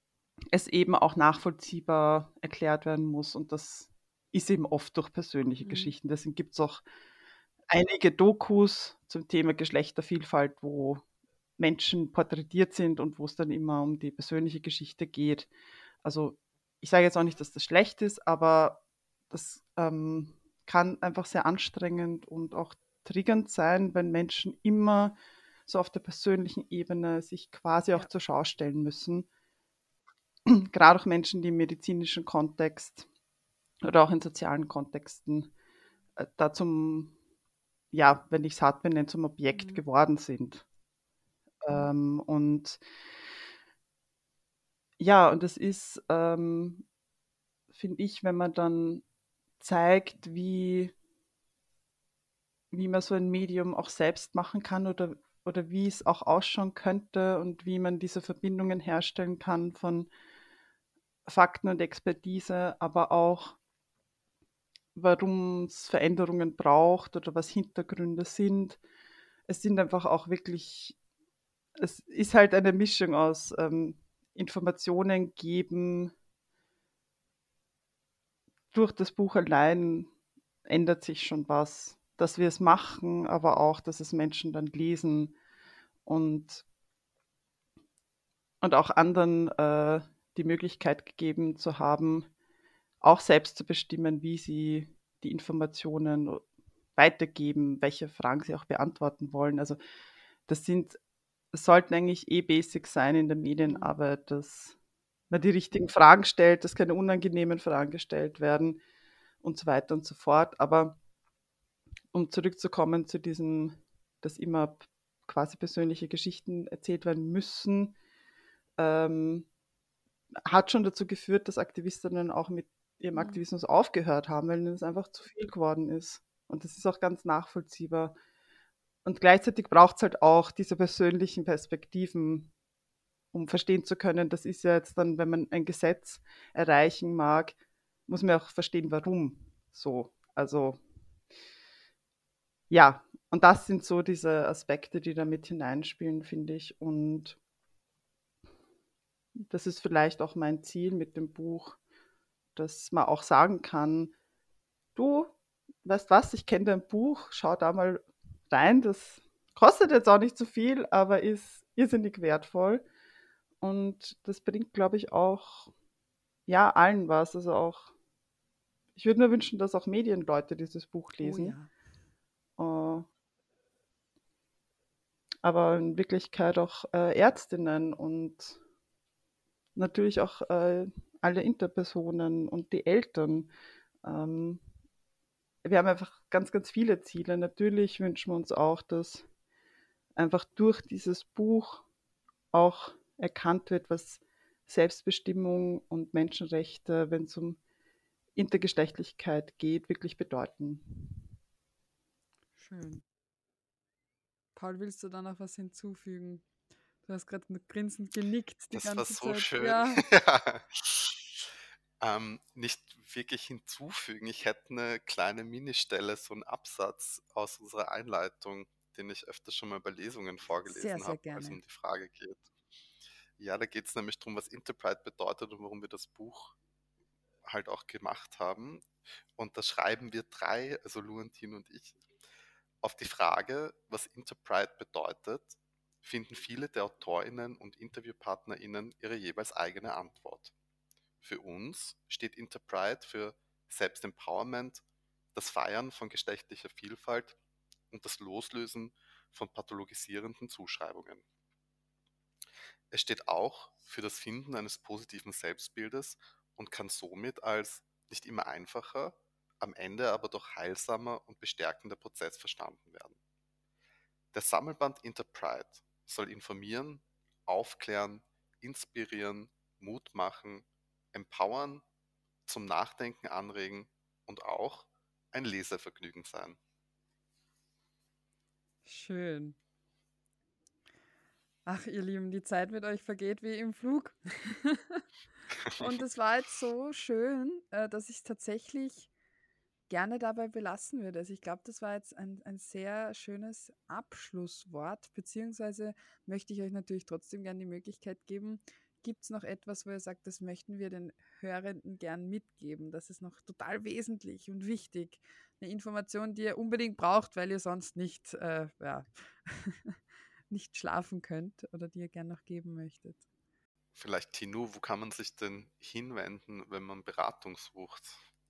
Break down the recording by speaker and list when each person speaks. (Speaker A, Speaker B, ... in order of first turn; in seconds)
Speaker A: 0.5-6.8, 7.7-11.0, 11.6-15.5, 16.0-25.2, 25.7-29.3, 30.5-33.1, 33.8-35.5, 36.2-37.1, 37.9-40.7, 41.6-42.8, 45.0-46.9, 47.7-49.0, 49.6-50.9, 52.7-60.1, 61.3-63.6, 64.9-68.8, 69.5-71.0, 71.8-76.1, 78.7-80.1, 80.7-85.4, 86.1-86.7, 88.6-92.3, 93.0-96.4, 97.0-99.8, 100.5-101.0, 101.5-104.8, 105.3-108.8, 109.4-111.0, 112.1-118.0, 118.8-119.5, 120.5-128.2, 129.1-132.5, 133.3-137.6, 138.1-140.8, 142.7-147.4, 149.5-151.8, 152.6-154.1, 154.9-162.8, 163.6-165.7, 166.5-167.9, 168.9-171.6, 172.6-173.1, 175.4-178.6, 179.8-183.5, 184.0-184.6, 185.6-189.3, 190.2-191.9, 192.5-197.6, 198.4-201.3
Speaker B: 5.6-5.9, 39.5-39.8, 103.7-104.0, 123.1-123.4, 171.2-171.7, 202.6-203.0, 204.6-206.4, 207.0-210.0, 220.7-221.6, 278.8-279.6, 281.7-285.0, 285.8-289.1, 289.9-310.0, 310.5-313.2
Speaker C: 208.8-211.4, 212.0-222.5, 223.4-226.6, 227.5-228.9, 229.4-232.0, 232.8-240.5, 241.2-244.8, 245.3-247.4, 247.9-251.2, 252.9-263.2, 264.3-271.8, 272.5-276.6, 285.6-285.9, 313.9-318.2